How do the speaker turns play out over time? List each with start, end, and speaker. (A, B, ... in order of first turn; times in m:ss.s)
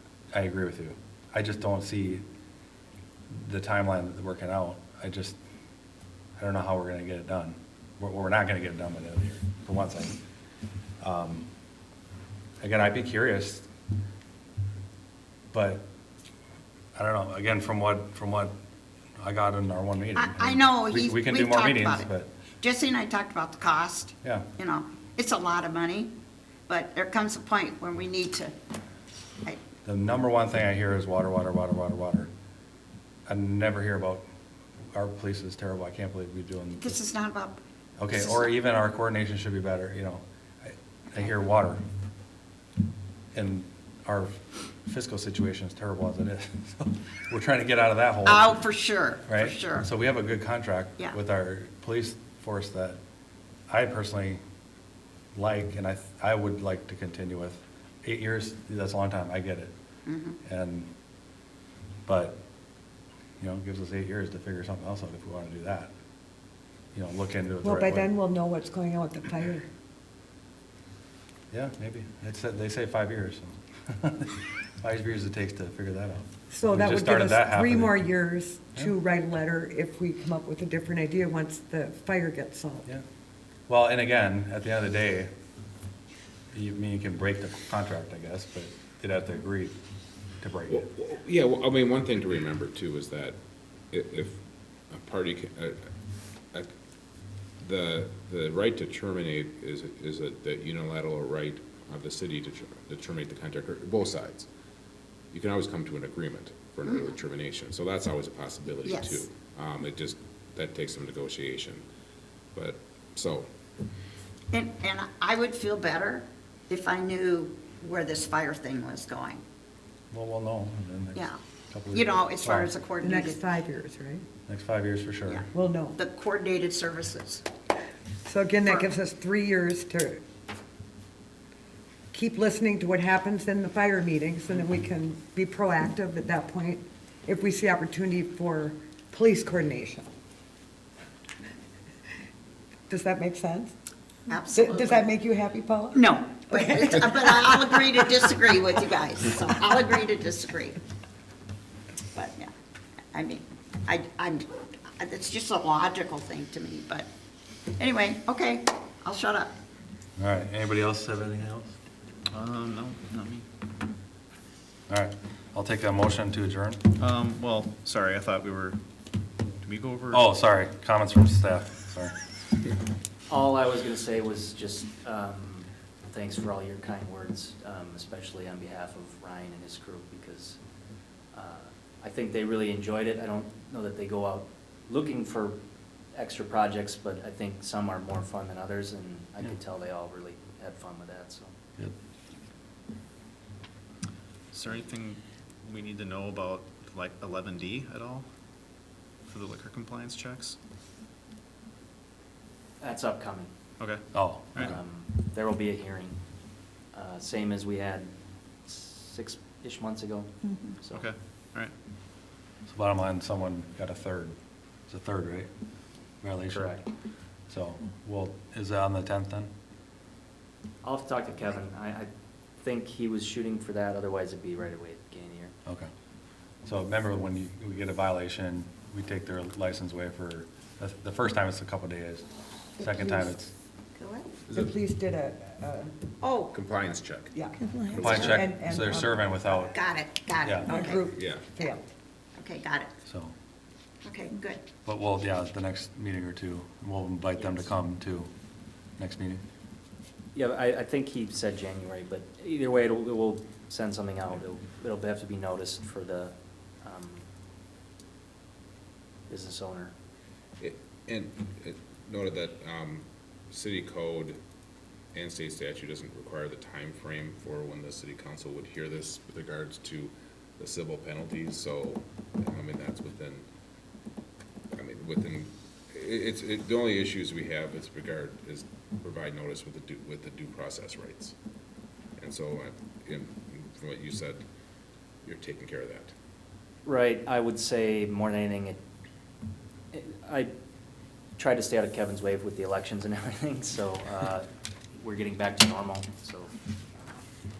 0:00.3-0:02.2 A
0:03.3-0:05.4 A
0:06.4-0:10.2 A
0:11.0-0:11.5 A
0:12.6-0:13.7 A
0:15.5-0:15.8 A
0:16.9-0:18.5 A
0:19.2-0:22.3 A
0:20.1-0:22.1 B
0:22.6-0:26.1 B
0:24.2-0:24.5 A
0:26.7-0:28.5 B
0:29.8-0:32.3 A
0:33.3-0:34.2 A
0:34.9-0:36.9 A
0:36.8-0:37.6 B
0:38.0-0:41.8 A
0:38.1-0:38.5 B
0:43.3-0:48.6 A
0:48.2-0:49.9 B
0:49.3-0:53.0 A
0:53.7-0:54.4 A
0:55.3-0:59.7 A
1:00.0-1:00.4 B
1:00.4-1:00.9 A
1:02.0-1:02.4 A
1:03.4-1:05.9 A
1:06.9-1:08.1 A
1:07.6-1:09.7 C
1:11.5-1:18.0 A
1:16.5-1:22.9 C
1:23.7-1:25.3 A
1:26.5-1:29.8 A
1:30.4-1:30.9 A
1:30.7-1:33.4 D
1:33.9-1:34.4 D
1:34.9-1:35.9 D
1:37.6-1:44.5 D
1:45.3-1:51.8 D
1:46.8-1:47.1 B
1:48.8-1:49.3 B
1:52.5-1:53.5 D
1:54.5-1:59.4 B
2:00.1-2:02.7 A
2:01.9-2:03.4 B
2:03.0-2:04.2 C
2:04.5-2:05.4 A
2:05.3-2:07.4 B
2:05.5-2:06.0 C
2:08.2-2:10.2 C
2:12.1-2:20.1 C
2:22.9-2:23.7 C
2:24.3-2:25.1 B
2:24.5-2:28.0 C
2:25.9-2:30.8 B
2:32.1-2:32.5 B
2:33.1-2:34.5 B
2:35.0-2:37.1 B
2:37.8-2:39.5 B
2:40.2-2:41.8 A
2:42.3-2:43.4 E
2:44.9-2:46.8 A
2:47.0-2:48.8 E
2:49.6-2:50.3 E
2:50.1-2:52.1 A
2:53.3-3:00.6 F
3:01.3-3:05.6 F
3:06.1-3:11.5 F
3:14.5-3:18.2 E
3:19.3-3:20.6 E
3:22.8-3:23.5 F
3:23.8-3:24.7 E
3:24.1-3:24.8 A
3:24.6-3:26.2 F
3:26.9-3:28.1 F
3:28.6-3:31.1 F
3:30.9-3:31.7 E
3:32.6-3:34.4 A
3:34.9-3:35.5 A
3:36.2-3:36.7 A
3:36.5-3:36.9 F
3:37.5-3:39.5 A
3:40.8-3:45.5 F
3:46.6-3:52.2 A
3:52.8-3:53.5 A
3:52.8-3:53.3 C
3:54.0-3:54.3 B
3:54.5-3:54.7 D
3:54.5-3:56.0 C
3:56.2-3:56.6 B
3:56.5-3:57.3 D
3:57.3-3:59.2 C
3:57.9-3:58.4 D
3:58.0-3:58.4 B
3:58.0-3:59.7 A
3:59.5-4:01.0 B
4:00.4-4:00.8 A
4:00.6-4:01.8 C
4:01.1-4:01.5 D
4:02.4-4:02.9 B
4:03.0-4:03.3 A
4:04.0-4:04.6 B
4:04.8-4:08.3 A
4:07.4-4:07.7 F
4:09.0-4:09.4 A
4:10.3-4:17.2 F
4:19.3-4:19.9 F
4:20.6-4:24.4 D
4:25.1-4:33.4 D
4:34.7-4:41.3 D
4:42.2-4:44.4 D
4:45.2-4:46.1 D
4:46.8-4:48.8 F
4:49.9-4:50.5 F
4:51.4-4:56.5 F